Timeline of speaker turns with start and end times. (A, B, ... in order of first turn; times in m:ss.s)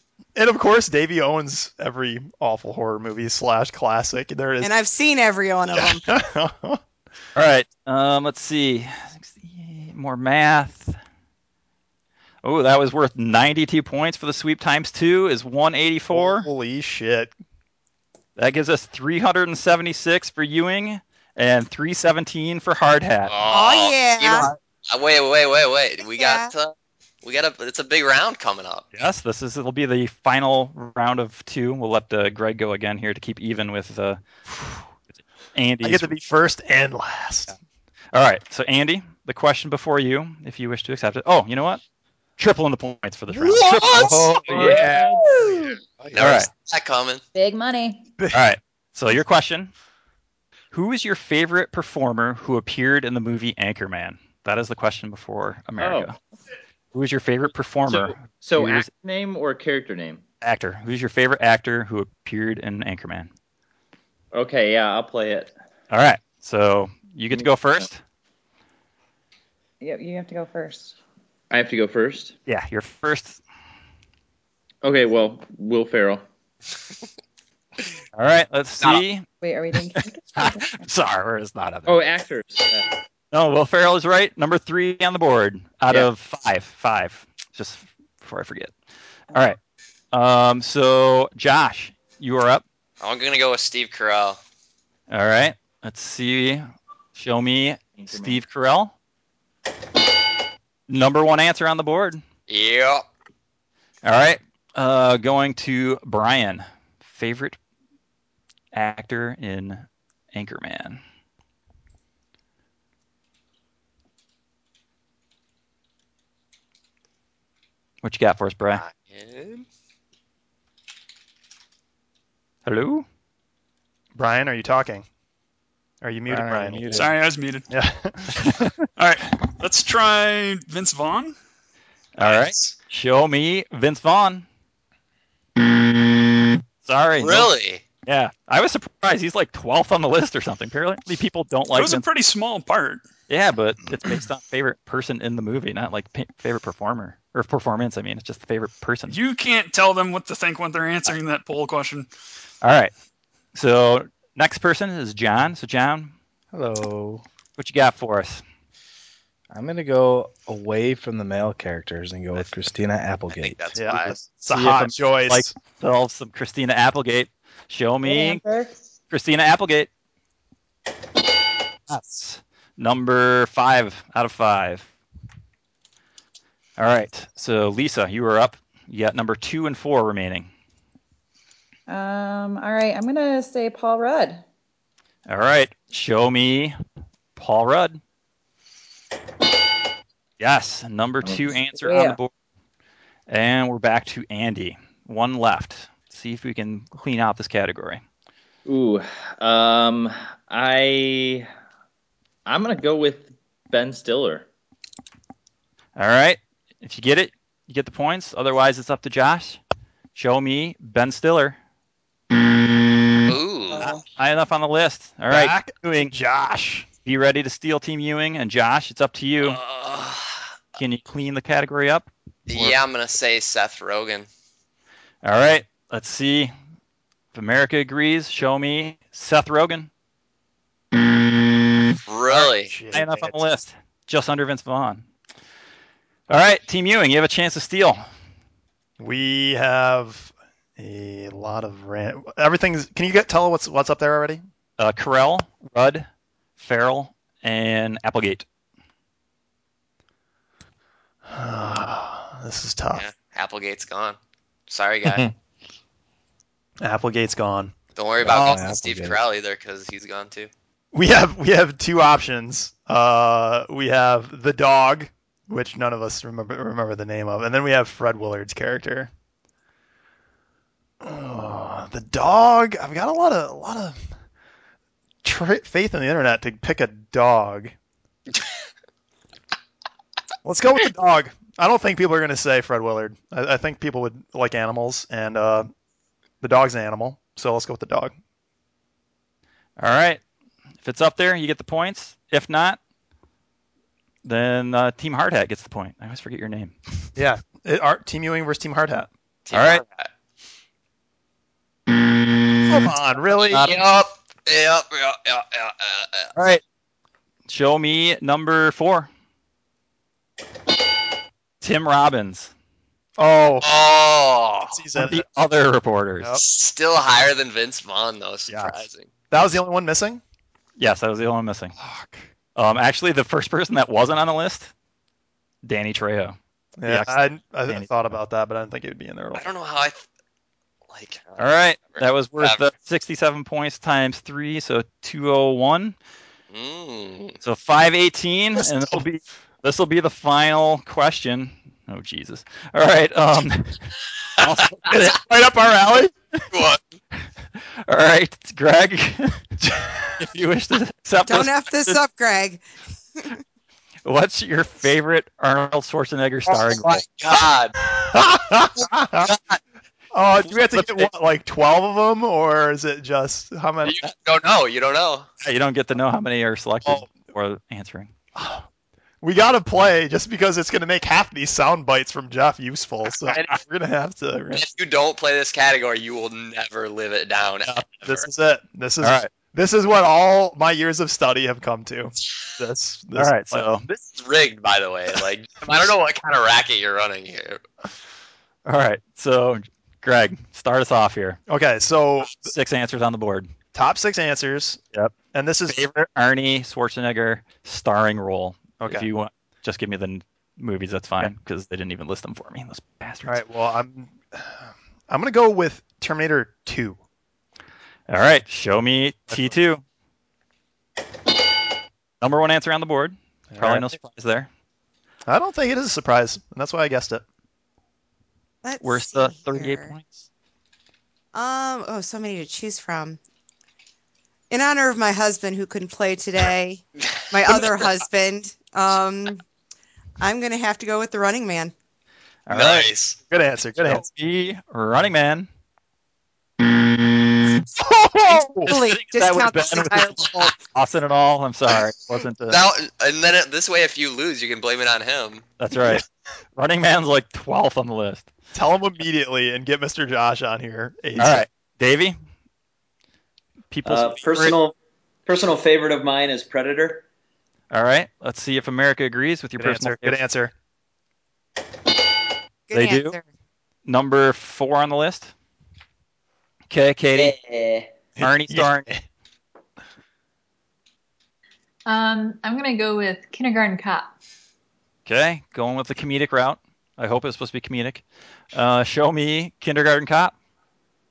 0:00.4-0:04.7 A
0:04.6-0:06.0 B
0:05.7-0:06.8 A
0:07.3-0:11.0 C
0:12.4-0:16.5 C
0:16.1-0:17.3 A
0:18.4-0:23.3 C
0:23.3-0:28.8 D
0:23.5-0:24.5 B
0:26.0-0:26.5 B
0:28.9-0:34.2 C
0:35.5-0:36.2 C
0:35.8-0:37.5 A
0:38.1-0:41.8 C
0:42.4-0:44.2 C
0:43.3-0:44.9 A
0:43.9-0:46.4 E
0:46.1-0:47.2 D
0:46.2-0:46.5 C
0:47.3-0:48.0 F
0:48.3-0:49.7 C
0:50.7-0:56.2 C
0:55.8-0:56.1 G
0:56.9-0:58.9 C
0:57.9-1:00.2 G
1:00.4-1:03.3 C
1:04.3-1:05.5 G
1:05.9-1:08.0 C
1:07.3-1:07.8 G
1:09.8-1:10.9 F
1:11.5-1:12.4 G
1:12.5-1:13.4 C
1:14.8-1:16.2 G
1:18.1-1:19.2 C
1:19.4-1:20.9 F
1:20.4-1:22.0 C
1:21.9-1:22.9 G
1:23.3-1:28.7 C
1:29.3-1:29.6 C
1:30.1-1:32.6 C
1:33.0-1:34.4 D
1:35.1-1:38.9 C
1:38.0-1:38.4 G
1:40.9-1:42.2 C
1:42.5-1:43.0 D
1:44.0-1:47.6 C
1:48.7-1:51.0 C
1:58.0-1:58.8 C
1:58.7-1:59.6 D
2:02.6-2:03.0 C
2:04.1-2:05.0 A
2:06.0-2:07.0 A
2:06.3-2:07.2 E
2:06.9-2:07.7 H
2:07.7-2:08.6 A
2:09.0-2:11.3 H
2:12.2-2:14.4 C
2:12.2-2:12.7 D
2:16.8-2:17.5 C
2:17.2-2:17.8 D
2:18.0-2:22.0 C
2:21.7-2:23.0 H
2:23.3-2:29.2 C
2:29.1-2:32.1 H
2:32.6-2:32.9 C
2:33.5-2:36.1 C
2:36.5-2:37.2 E
2:37.6-2:38.4 C
2:39.5-2:44.1 E
2:43.3-2:44.2 D
2:43.8-2:45.5 A
2:44.5-2:48.4 C
2:48.0-2:48.8 F
2:49.1-2:49.9 C
2:51.9-2:54.9 C
2:56.8-3:00.5 C
3:01.9-3:04.4 F
3:05.3-3:06.8 C
3:07.4-3:08.0 C
3:10.4-3:12.3 C
3:11.8-3:12.2 F
3:13.3-3:18.0 C
3:18.6-3:21.5 G
3:22.4-3:24.4 G
3:26.0-3:29.6 C
3:30.1-3:31.6 C
3:33.3-3:33.8 D
3:33.8-3:36.1 C
3:35.3-3:36.9 A
3:37.0-3:39.6 C
3:39.4-3:40.4 D
3:40.8-3:42.8 C
3:42.5-3:44.3 D
3:45.2-3:46.5 C
3:47.3-3:49.9 C
3:52.0-3:52.7 D
3:52.3-3:53.4 A
3:52.9-3:55.0 C
3:56.3-3:58.0 C
3:59.0-4:04.4 A
4:04.8-4:06.1 C
4:06.6-4:08.4 C
4:11.2-4:13.0 A
4:12.9-4:14.2 D
4:14.7-4:15.2 D
4:16.8-4:17.7 A
4:18.0-4:20.5 D
4:18.2-4:19.2 E
4:18.3-4:18.6 A
4:20.9-4:29.1 A
4:31.0-4:34.0 A
4:35.2-4:37.7 A
4:40.4-4:45.7 A
4:46.4-4:48.1 A
4:49.8-4:50.2 C
4:50.8-4:52.8 C
4:54.2-4:56.8 C
4:57.2-4:59.1 A
4:59.4-5:00.1 D
4:59.5-4:59.8 C
5:02.6-5:03.8 A
5:03.5-5:06.3 D
5:06.3-5:06.6 C
5:07.5-5:09.1 C
5:11.6-5:12.5 C
5:13.2-5:13.7 A
5:13.6-5:14.8 D
5:14.7-5:15.2 A
5:14.9-5:16.4 C
5:16.4-5:19.1 D
5:19.3-5:20.2 A
5:20.8-5:21.7 C
5:21.8-5:22.2 A
5:22.5-5:24.7 C
5:25.6-5:28.1 C
5:26.8-5:29.5 A
5:29.3-5:30.0 D
5:30.9-5:32.6 D
5:31.4-5:36.0 C
5:36.5-5:37.4 D
5:37.4-5:43.9 C
5:38.6-5:39.0 A
5:44.4-5:45.2 C
5:44.8-5:46.1 A
5:46.5-5:46.8 D
5:47.9-5:49.5 C
5:49.6-5:50.0 A
5:50.2-5:52.0 C
5:51.2-5:52.6 B
5:54.0-5:57.0 C
5:56.5-5:57.7 D
5:57.9-5:59.3 A
6:00.1-6:04.0 A
6:00.5-6:01.1 C
6:03.8-6:05.3 D
6:05.4-6:08.1 C
6:08.3-6:08.6 A
6:09.2-6:14.7 A
6:14.5-6:18.3 D
6:17.7-6:23.7 A
6:19.0-6:19.3 C
6:23.2-6:23.9 C
6:23.9-6:27.6 D
6:28.6-6:31.4 C
6:31.5-6:32.5 A
6:32.2-6:33.5 C
6:33.7-6:34.8 A
6:35.3-6:35.8 A
6:35.7-6:43.4 C
6:38.8-6:39.1 A
6:43.2-6:47.0 A
6:48.1-6:49.8 C
6:52.2-6:54.5 C
6:53.5-6:53.9 A
6:55.2-6:57.2 A
6:58.6-6:59.9 B
6:58.8-7:00.1 C
7:01.3-7:03.2 B
7:04.5-7:09.4 B
7:10.2-7:11.7 B
7:12.5-7:12.9 C
7:12.5-7:13.2 D
7:13.3-7:14.0 A
7:13.8-7:15.5 C
7:17.7-7:18.7 A
7:18.6-7:22.6 C
7:18.6-7:20.5 B
7:22.5-7:25.4 D
7:25.6-7:26.0 C
7:26.6-7:28.3 C
7:28.5-7:31.5 A
7:31.2-7:32.1 C
7:33.7-7:34.5 C
7:33.8-7:34.7 I
7:35.2-7:37.0 I
7:37.7-7:40.2 C
7:39.6-7:40.5 A
7:42.7-7:43.2 B
7:42.7-7:43.2 C
7:43.8-7:45.3 C
7:46.7-7:47.4 C
7:47.1-7:47.9 I
7:48.2-7:49.0 A
7:48.2-7:48.9 C
7:51.8-7:54.1 J
7:55.0-8:00.3 C